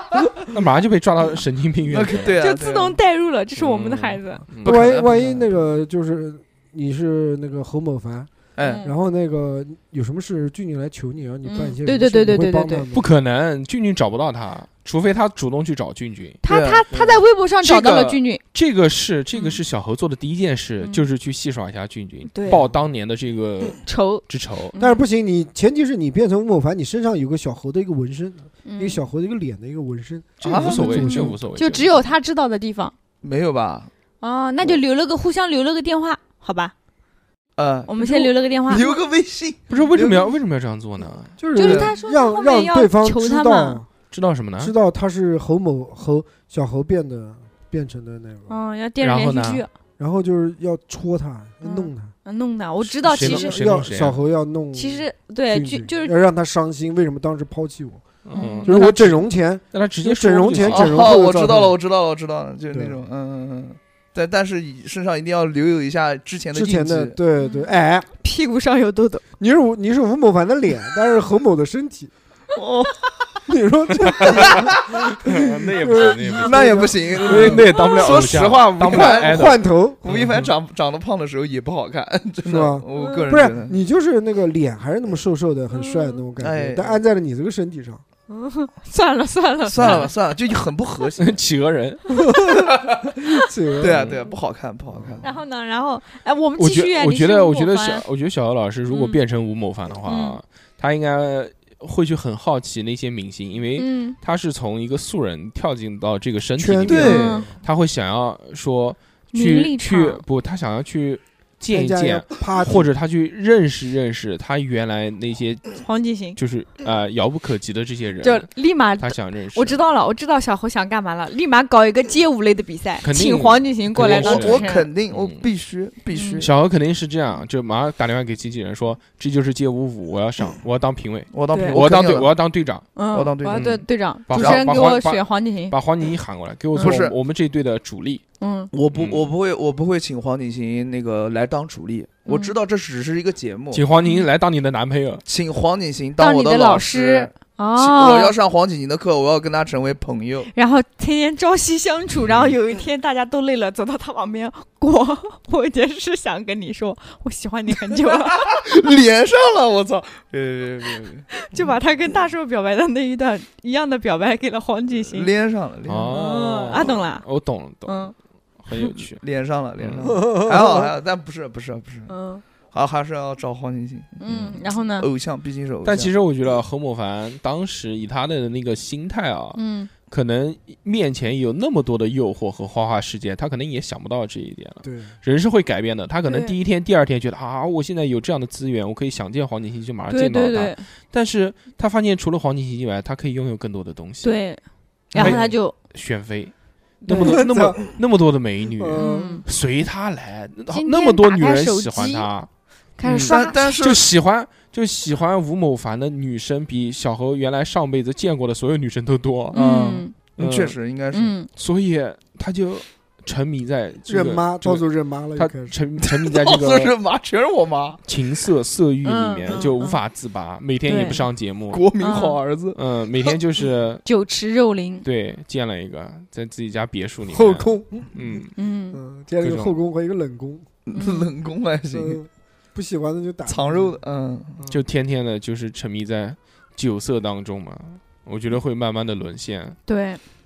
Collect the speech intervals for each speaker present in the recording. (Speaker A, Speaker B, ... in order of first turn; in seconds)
Speaker A: 0.5-2.4, 3.6-4.9, 12.9-16.4, 17.6-24.7, 30.4-31.9, 39.7-41.3, 44.1-44.7, 49.0-49.6, 53.0-54.2, 58.2-61.1, 75.2-80.5, 91.2-92.2, 93.9-94.2, 96.6-119.8, 123.0-125.5, 126.4-132.9, 133.5-138.2, 138.9-139.3, 143.7-145.2, 165.9-168.1, 168.6-169.2, 169.8-170.1, 174.2-174.6, 175.8-194.4, 195.1-196.5, 197.0-202.5, 203.0-209.6, 210.4-210.8, 211.5-214.8, 215.3-216.9, 218.0-221.9, 222.7-224.0, 225.0-228.5, 229.4-229.7, 234.7-239.8
Speaker B: 1.9-3.0, 4.6-5.5, 8.6-8.8, 16.4-17.2, 30.4-31.2, 33.2-33.9, 37.6-40.3, 41.6-41.9, 60.6-67.1, 72.5-73.1, 74.2-74.9, 76.4-83.8, 86.4-87.0, 89.7-91.4, 92.6-93.1, 93.8-95.3, 106.9-107.5, 124.0-126.5, 131.3-132.3, 133.1-133.7, 134.3-134.6, 136.8-137.1, 138.7-143.8, 145.2-150.5, 158.1-161.3, 165.1-166.2, 169.2-172.1, 172.7-174.2, 175.0-176.1, 195.1-195.4, 203.2-204.0, 209.5-211.3, 216.0-218.0, 221.7-223.3, 230.8-232.2, 233.4-234.6
Speaker C: 2.4-4.4, 8.6-8.9, 11.4-12.8, 16.4-18.4, 19.3-19.6, 22.3-22.6, 23.8-25.0, 28.6-29.0, 30.9-32.9, 34.2-36.7, 37.9-39.0, 41.5-43.8, 48.5-49.7, 51.6-53.6, 54.7-56.1, 58.3-58.8, 67.4-67.7, 68.2-69.2, 77.7-78.0, 82.9-83.2, 85.7-86.2, 88.3-90.1, 95.2-98.0, 98.9-99.2, 100.0-100.4, 103.8-104.2, 107.0-107.5, 109.3-110.2, 115.8-116.4, 118.2-124.9, 126.1-126.4, 131.5-131.8, 132.9-135.8, 136.7-137.0, 138.4-138.7, 142.3-142.5, 146.2-148.3, 150.5-158.5, 161.3-165.3, 166.1-167.2, 167.8-168.1, 172.1-172.4, 174.2-175.1, 179.5-179.9, 186.2-186.5, 190.1-190.8, 194.2-194.6, 195.1-195.7, 197.0-197.4, 199.0-199.4, 200.7-202.3, 203.0-203.7, 209.5-210.1, 211.1-211.5, 219.0-220.0, 220.8-221.2, 222.0-222.4, 224.0-225.0, 228.6-229.0, 230.9-231.2, 239.9-240.2
Speaker D: 4.6-13.1, 24.8-31.4, 41.4-43.9, 44.6-48.5, 50.0-52.1, 53.1-58.0, 58.6-61.7, 62.7-63.0, 66.5-68.1, 69.4-72.1, 73.5-77.7, 78.8-80.0, 82.4-88.0, 92.2-92.7, 93.4-94.1, 94.9-95.2, 106.6-107.5, 111.7-112.9, 170.0-170.9, 184.8-185.1, 197.2-197.9, 198.8-199.4, 214.1-215.7, 227.3-228.4, 228.9-230.7, 231.9-234.0